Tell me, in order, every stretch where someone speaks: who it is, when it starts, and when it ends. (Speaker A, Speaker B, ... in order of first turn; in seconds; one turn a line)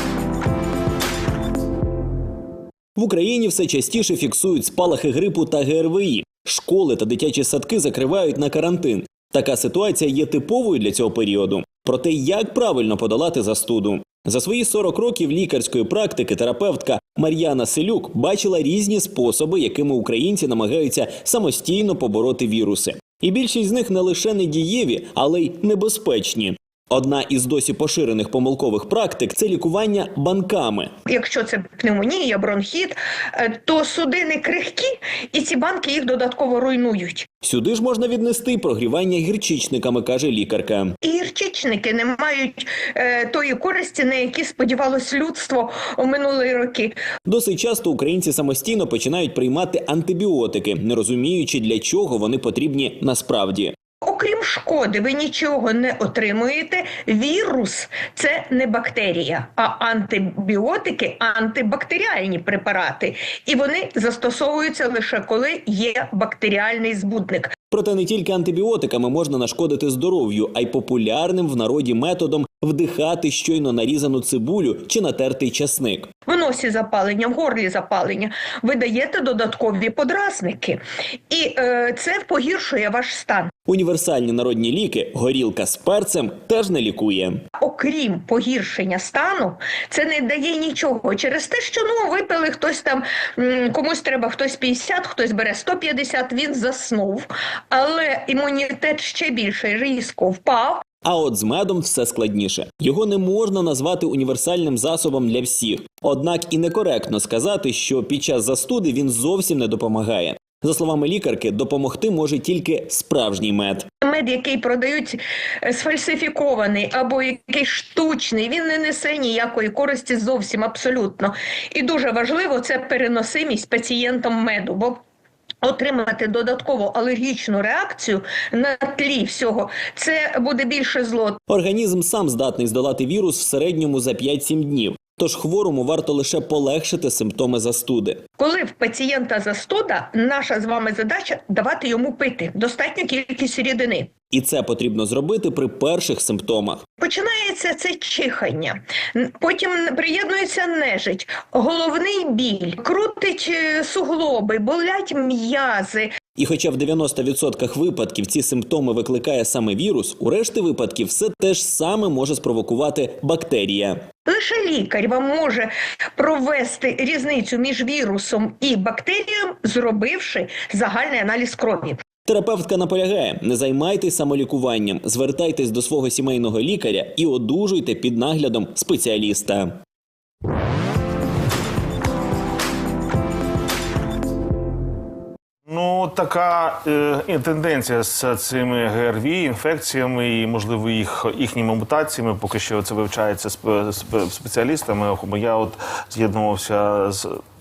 Speaker A: 3.0-30.9
Speaker B: 31.1-37.3
Speaker A: 37.4-41.0
Speaker B: 41.0-47.0
Speaker A: 47.3-53.7
Speaker B: 54.0-67.6
Speaker A: 67.7-76.1
Speaker B: 76.3-83.5
Speaker A: 83.7-87.4
Speaker B: 87.6-100.8
Speaker A: 101.0-113.9
Speaker B: 114.0-125.0
Speaker B: 125.6-131.4
Speaker A: 131.5-138.2
Speaker B: 138.4-144.1
Speaker A: 144.3-146.8
Speaker B: 147.0-156.1
Speaker A: 156.4-164.0
Speaker B: 164.3-172.0
Speaker A: 172.3-179.8
Speaker C: 185.7-197.4